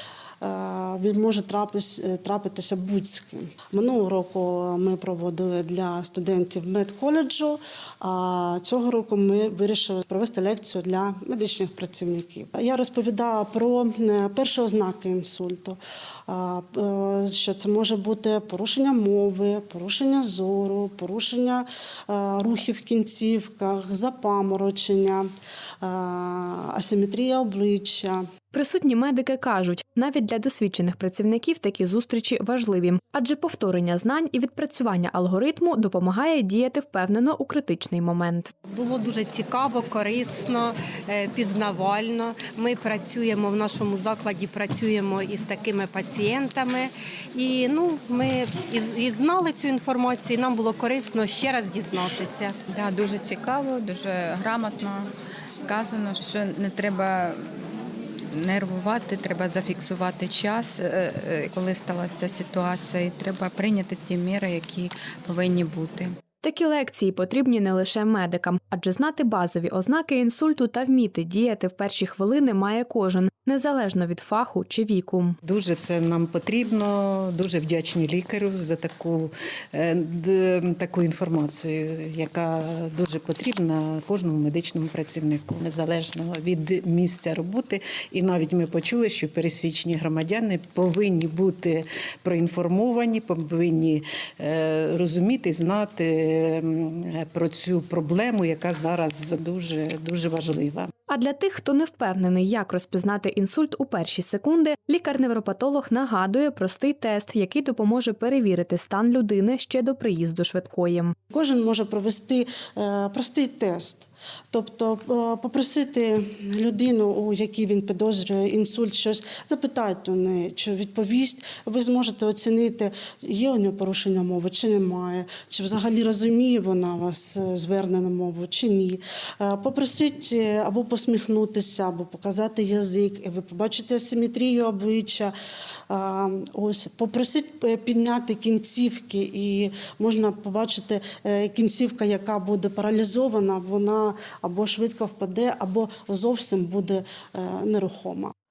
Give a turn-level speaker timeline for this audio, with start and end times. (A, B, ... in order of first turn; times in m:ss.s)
0:00.4-0:25.3 A
0:25.8-0:28.2 A
0:28.5-0:38.5 B
0:38.7-0:52.6 C
0:52.7-0:55.1 D
0:55.6-0:57.4 D
0:58.3-1:06.1 D
1:06.4-1:15.4 B
1:15.4-1:40.9 E
1:41.1-1:51.1 B
1:51.3-2:15.3 A
2:15.9-2:28.3 A